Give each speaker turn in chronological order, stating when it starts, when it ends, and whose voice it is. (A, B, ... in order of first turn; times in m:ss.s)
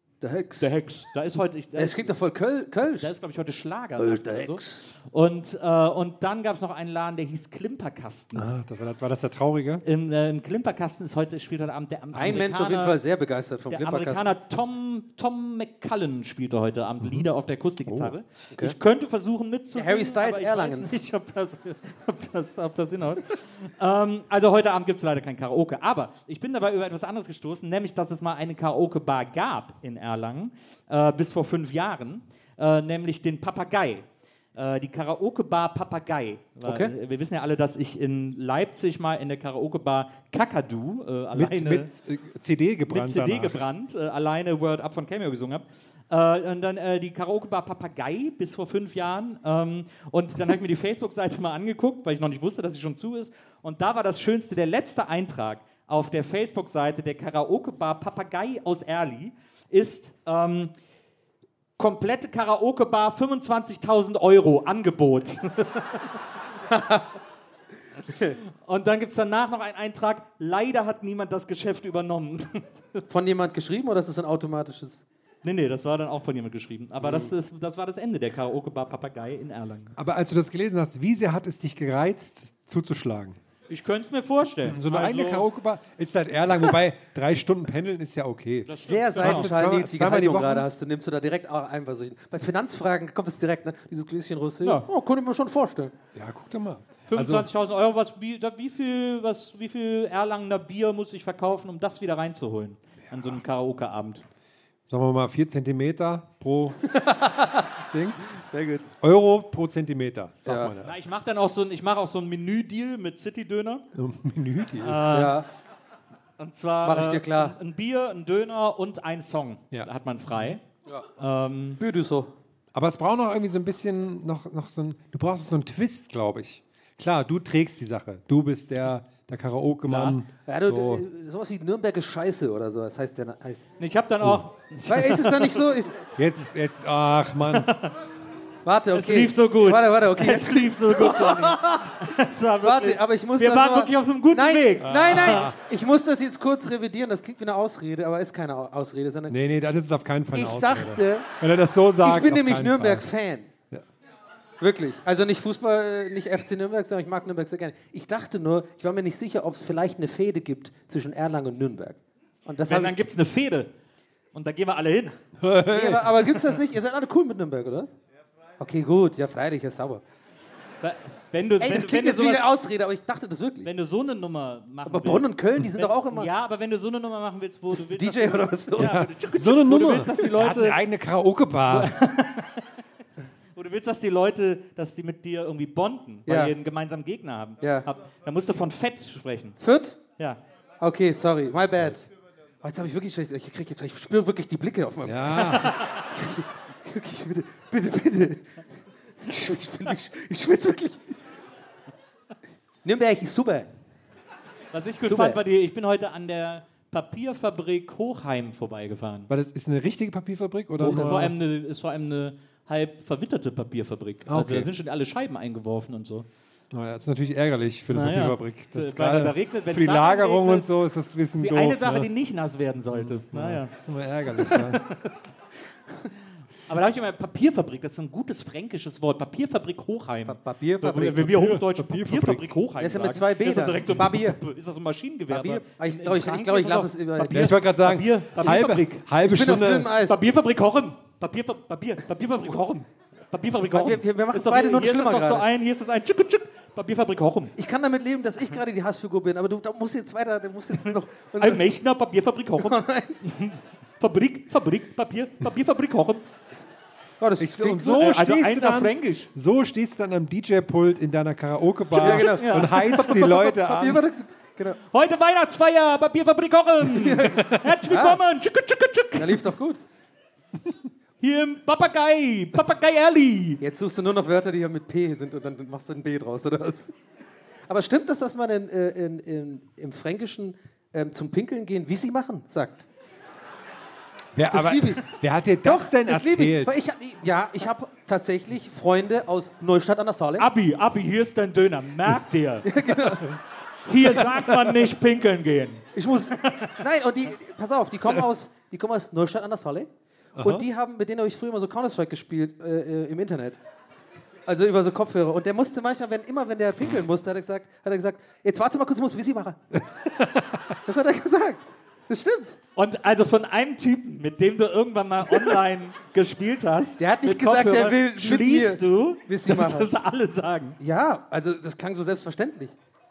0:00.2-0:00.7 A
0:00.6-0:02.1 B
0:01.8-0:03.1 A
0:03.0-0:08.5 B
0:04.0-0:04.8 A
0:08.3-0:09.8 C
0:09.8-0:13.0 B
0:12.1-0:14.3 A
0:13.7-0:41.9 B
0:17.0-0:17.3 C
0:17.8-0:18.1 C
0:19.7-0:21.0 A
0:36.6-0:36.9 A
0:41.3-0:43.6 C
0:42.9-1:00.7 B
1:01.8-1:06.0 B
1:06.7-1:07.1 A
1:08.1-1:08.4 A
1:08.6-1:13.0 B
1:13.1-1:15.0 A
1:15.4-1:19.9 B
1:20.0-1:23.4 C
1:23.7-1:25.4 B
1:24.6-1:30.7 C
1:28.7-1:29.5 B
1:28.8-1:35.9 A
1:36.1-1:37.5 C
1:37.1-1:44.2 B
1:43.1-1:43.4 C
1:44.9-1:46.8 C
1:46.9-1:47.7 A
1:47.9-1:48.4 C
1:48.4-1:48.9 A
1:49.0-1:50.9 C
1:50.4-1:50.7 A
1:50.8-1:53.8 B
1:53.9-1:55.1 C
1:54.8-1:55.4 B
1:55.1-1:55.5 A
1:56.4-2:00.6 B
1:56.8-1:57.6 A
1:59.7-2:00.6 C
2:01.2-2:01.8 B
2:01.8-2:02.3 A
2:02.7-2:11.0 C
2:09.9-2:10.2 B
2:10.4-2:13.6 A
2:13.8-2:15.6 B
2:14.9-2:16.1 A
2:16.2-2:17.7 C
2:17.5-2:17.9 B
2:18.6-2:22.0 A
2:18.9-2:25.5 B
2:22.6-2:29.4 A
2:24.8-2:25.6 C
2:29.3-2:33.0 C
2:30.3-2:31.3 A
2:32.0-2:33.5 A
2:34.6-2:43.0 A
2:42.6-2:43.7 B
2:44.3-2:45.2 B
2:45.4-2:46.3 C
2:45.7-2:47.9 A
2:48.6-2:50.0 A
2:50.8-2:52.5 B
2:51.6-2:53.7 A
2:53.6-3:00.8 B
2:54.8-2:56.3 A
2:57.7-2:59.1 A
2:58.8-3:02.0 C
3:01.7-3:02.6 B
3:03.5-3:09.6 B
3:06.3-3:06.5 A
3:07.6-3:07.9 A
3:09.6-3:10.0 A
3:10.8-3:12.1 A
3:12.6-3:18.6 A
3:15.0-3:15.7 C
3:19.2-3:21.2 A
3:22.8-3:23.7 A
3:24.7-3:29.3 B
3:25.0-3:25.4 A
3:29.3-3:31.4 C
3:30.8-3:36.3 B
3:34.3-3:34.7 C
3:36.7-3:42.1 C
3:37.9-3:40.7 B
3:41.4-3:43.7 B
3:42.9-3:44.8 C
3:44.4-3:45.0 B
3:46.7-3:59.0 B
3:50.2-3:51.3 A
3:51.1-3:52.6 C
3:52.8-3:54.4 A
3:55.3-3:57.6 A
3:57.3-3:59.9 C
3:59.2-4:00.2 A
4:00.0-4:07.5 B
4:03.7-4:05.4 A
4:07.6-4:11.7 A
4:11.4-4:16.2 B
4:12.6-4:13.2 A
4:17.2-4:18.0 A
4:17.4-4:24.0 C
4:17.8-4:19.3 B
4:21.9-4:23.1 B
4:21.9-4:24.8 A
4:24.8-4:29.5 B
4:26.9-4:28.2 A
4:27.3-4:27.6 C
4:29.2-4:29.8 A
4:31.2-4:33.6 B
4:33.6-4:36.9 A
4:37.7-4:42.8 A
4:44.4-4:46.8 C
4:44.5-4:50.5 A
4:50.4-4:52.7 B
4:52.6-4:53.4 A
4:53.9-4:55.8 B
4:55.9-5:03.6 A
4:56.4-4:56.7 B
5:00.4-5:00.6 C
5:04.4-5:09.6 A
5:09.9-5:10.6 C
5:10.8-5:12.6 A
5:12.8-5:20.8 B
5:17.0-5:19.9 A
5:20.8-5:22.7 A